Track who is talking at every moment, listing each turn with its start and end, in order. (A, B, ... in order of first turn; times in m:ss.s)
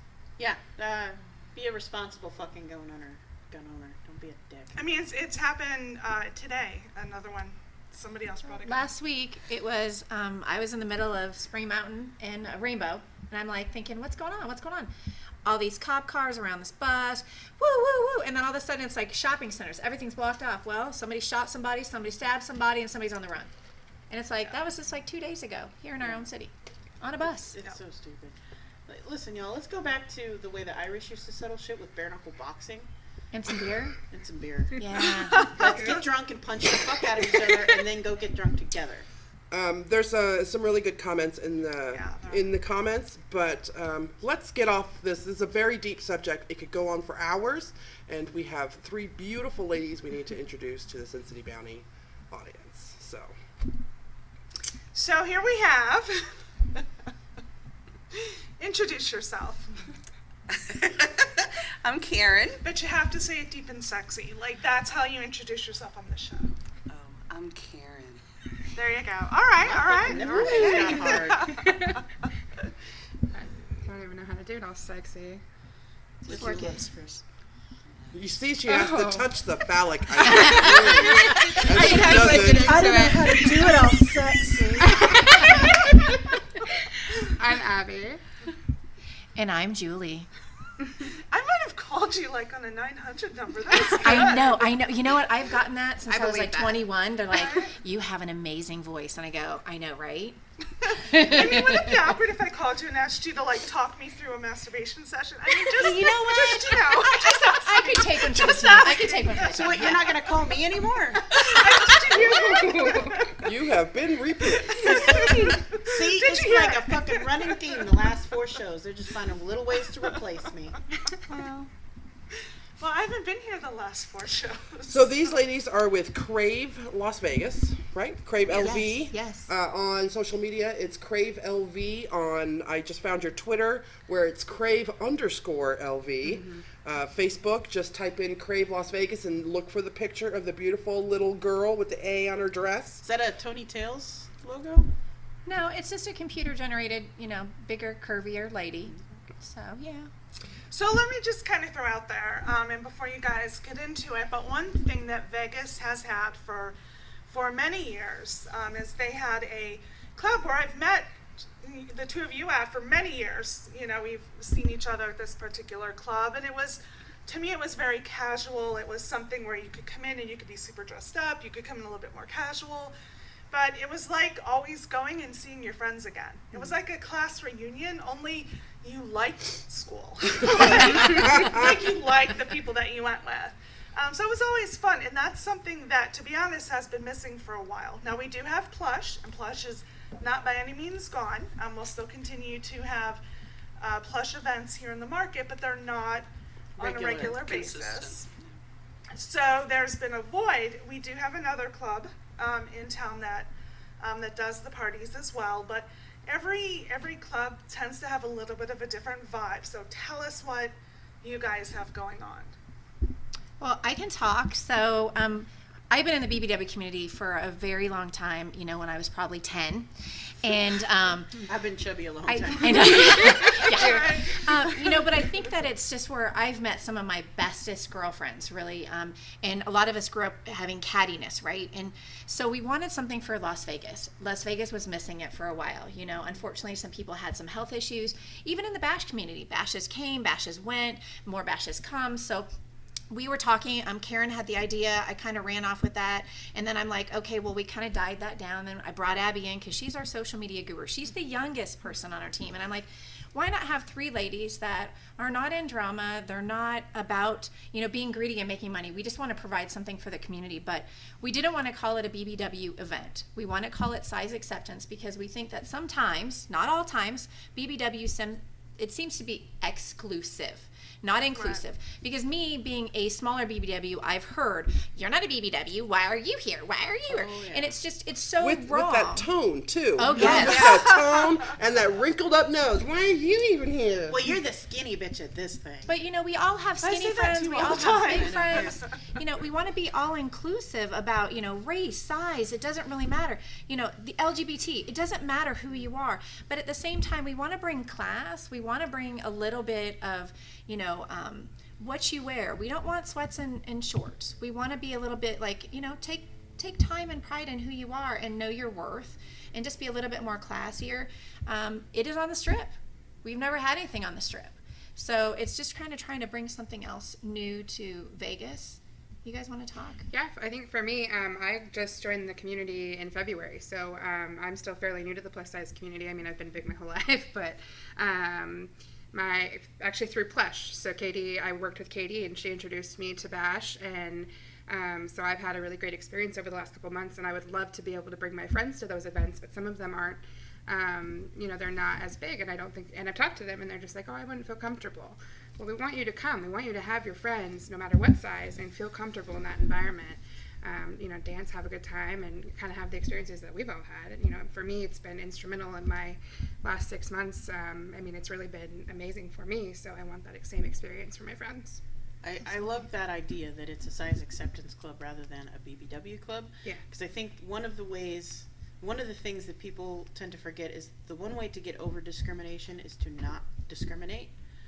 0:00.4-0:05.0 A
0:04.8-0:08.9 B
0:08.5-0:14.9 C
0:15.4-0:23.5 C
0:24.1-0:27.6 C
0:26.0-0:26.3 A
0:27.5-0:32.9 A
0:33.3-0:34.0 C
0:34.1-0:34.8 A
0:34.8-0:35.9 C
0:35.3-0:36.0 B
0:35.4-0:39.1 A
0:39.5-0:53.3 D
0:41.9-0:42.5 B
0:54.9-0:56.4 B
0:58.2-0:59.7 B
1:00.6-1:02.6 E
1:02.6-1:06.5 B
1:06.9-1:08.2 E
1:08.8-1:12.0 B
1:09.6-1:11.5 A
1:10.1-1:12.0 F
1:13.4-1:15.4 F
1:16.2-1:17.2 E
1:16.3-1:16.9 C
1:17.9-1:18.2 E
1:18.1-1:22.8 D
1:18.6-1:19.4 F
1:20.2-1:24.2 F
1:20.3-1:22.5 C
1:21.8-1:25.5 A
1:24.9-1:25.8 F
1:27.4-1:28.2 F
1:29.4-1:30.3 C
1:31.3-1:34.7 B
1:33.9-1:40.4 C
1:36.1-1:36.6 A
1:36.2-1:36.8 F
1:37.4-1:37.7 B
1:40.8-1:50.4 B
1:41.1-1:42.0 C
1:45.8-1:50.0 C
1:45.8-1:46.1 A
1:49.5-1:51.3 A
1:51.3-1:53.4 B
1:52.1-1:53.3 F
1:53.4-1:55.0 D
1:54.7-1:58.0 B
1:54.9-1:55.6 E
1:55.2-2:00.8 A
2:01.3-2:01.7 C
2:02.8-2:05.1 B
2:04.9-2:23.0 D
2:08.5-2:09.5 C
2:16.2-2:16.6 F
2:23.0-2:24.9 A
2:25.5-2:30.1 C
2:30.7-2:36.8 B
2:37.3-2:53.0 B
2:53.5-3:13.2 B
3:01.2-3:01.8 D
3:13.8-3:18.3 B
3:16.8-3:17.8 A
3:17.2-3:18.3 E
3:19.1-3:32.5 B
3:33.6-3:39.9 C
3:40.4-3:41.4 C
3:41.5-3:43.6 A
3:42.3-4:02.5 C
3:43.7-3:44.7 B
4:03.1-4:39.3 C
4:31.4-4:31.6 B
4:37.1-4:37.7 A
4:38.4-4:44.3 D
4:40.0-4:40.8 C
4:40.1-4:40.9 A
4:40.5-4:41.3 B
4:44.1-4:45.9 A
4:45.9-5:20.0 C
4:46.8-4:48.9 A
4:47.7-4:48.8 B
5:20.1-6:01.8 F
6:02.2-6:14.3 A